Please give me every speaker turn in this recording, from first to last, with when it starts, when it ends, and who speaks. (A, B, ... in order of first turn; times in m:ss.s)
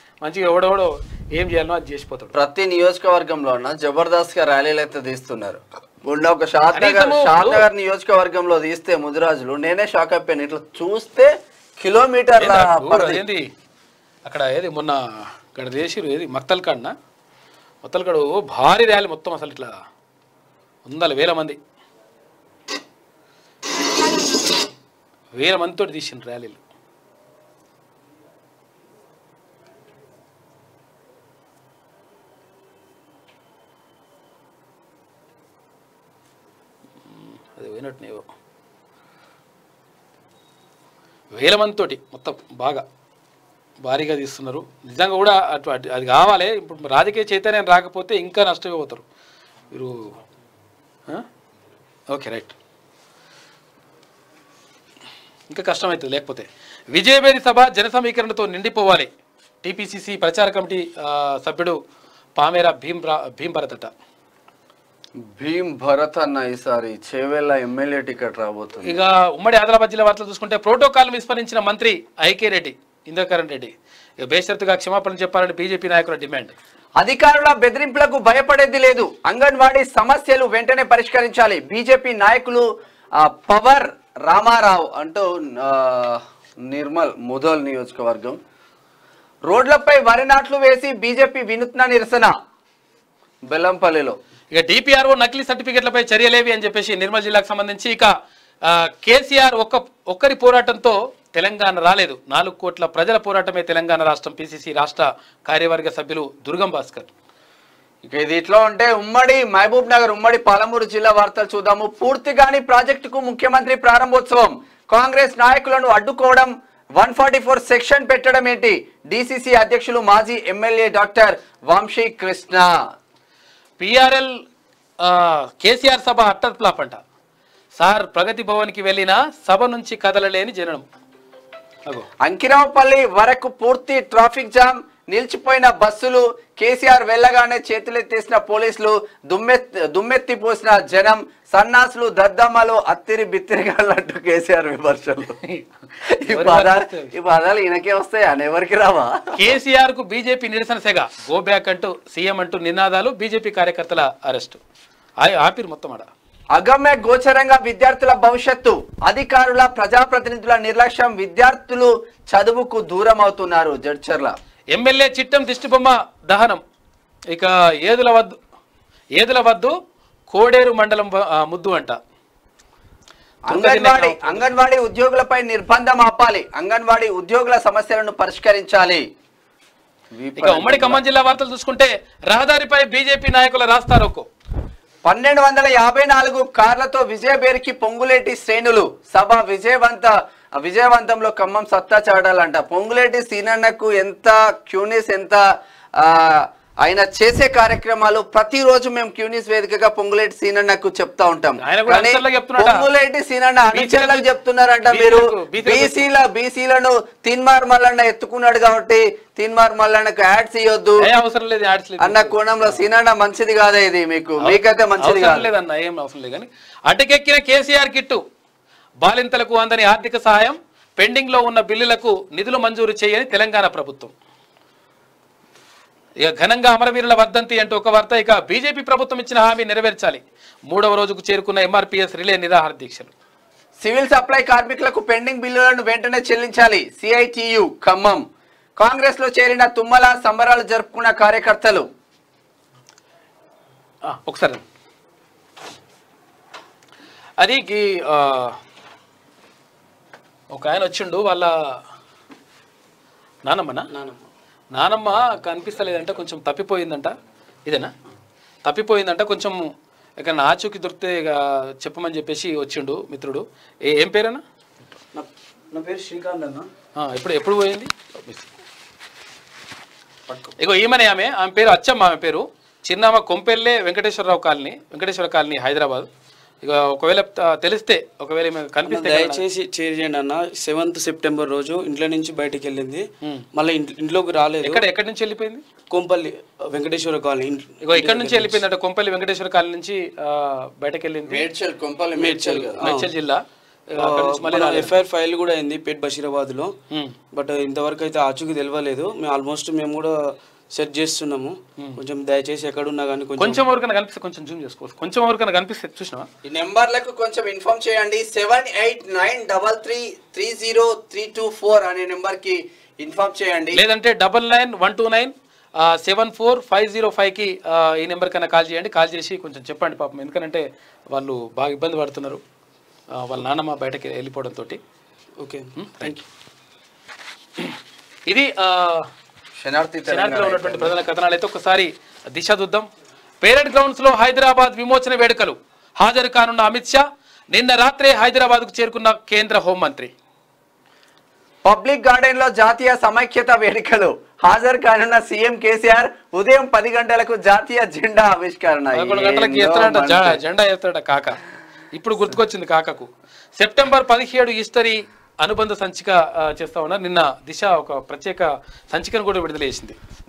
0:00.2-0:02.3 A
0:02.3-0:13.2 B
0:06.7-0:07.7 A
0:12.4-0:13.5 A
0:14.3-0:17.0 A
0:17.8-0:19.8 A
0:20.9-0:21.6 A
0:25.4-0:26.6 A
0:37.1-0:38.3 A
0:41.4-0:42.8 A
0:43.8-0:49.0 A
0:49.7-0:50.1 A
0:52.1-0:52.6 A
0:55.5-0:59.1 A
0:59.6-1:01.8 A
1:02.4-1:03.9 A
1:05.2-1:09.0 B
1:08.8-1:13.7 A
1:14.2-1:16.5 A
1:17.0-1:28.4 B
1:29.5-1:32.3 B
1:33.5-1:34.2 B
1:34.5-1:38.1 A
1:38.7-1:47.1 A
1:48.1-2:02.7 B
2:03.8-2:04.4 A
2:05.0-2:07.0 A
2:07.8-2:10.8 A
2:12.2-2:25.4 B
2:26.1-2:29.4 B
2:26.3-2:27.1 A
2:29.4-2:34.6 A
2:35.2-2:36.1 A
2:36.5-2:44.4 B
2:44.7-2:46.6 A
2:47.3-2:48.4 A
2:49.2-2:49.7 A
2:50.3-2:52.0 A
2:53.5-2:59.0 B
2:53.5-2:54.5 A
3:00.1-3:01.0 B
3:00.4-3:04.3 A
3:05.0-3:15.4 B
3:16.0-3:31.1 B
3:21.6-3:22.8 A
3:23.7-3:24.3 A
3:24.9-3:26.1 A
3:31.0-3:32.8 A
3:32.0-3:35.5 B
3:34.4-3:38.2 A
3:39.0-3:44.1 A
3:46.2-3:53.1 A
3:53.8-3:58.2 B
3:58.8-4:01.9 B
4:04.1-4:04.6 A
4:07.4-4:08.6 A
4:10.5-4:11.5 A
4:13.5-4:13.9 A
4:13.9-4:14.2 C
4:14.7-4:17.1 A
4:17.7-4:17.9 A
4:18.6-4:24.4 A
4:25.1-4:26.7 C
4:27.0-4:28.5 A
4:30.6-4:36.1 A
4:36.6-4:39.4 A
4:38.9-4:44.8 C
4:44.6-4:45.6 A
4:45.9-4:48.6 C
4:47.8-4:51.5 A
4:51.3-4:52.9 B
4:52.2-4:53.1 C
4:52.8-4:54.9 A
4:54.0-4:56.7 C
4:56.9-4:57.2 A
4:57.3-5:00.1 C
5:00.8-5:03.6 C
5:03.4-5:06.3 A
5:06.4-5:13.8 B
5:13.7-5:22.4 A
5:23.2-5:24.8 A
5:25.4-5:26.2 C
5:25.8-5:26.2 A
5:28.3-5:29.1 A
5:29.6-5:31.0 B
5:30.1-5:32.9 A
5:33.4-5:40.1 A
5:41.6-5:50.4 B
5:48.9-5:51.4 A
5:51.9-6:00.0 A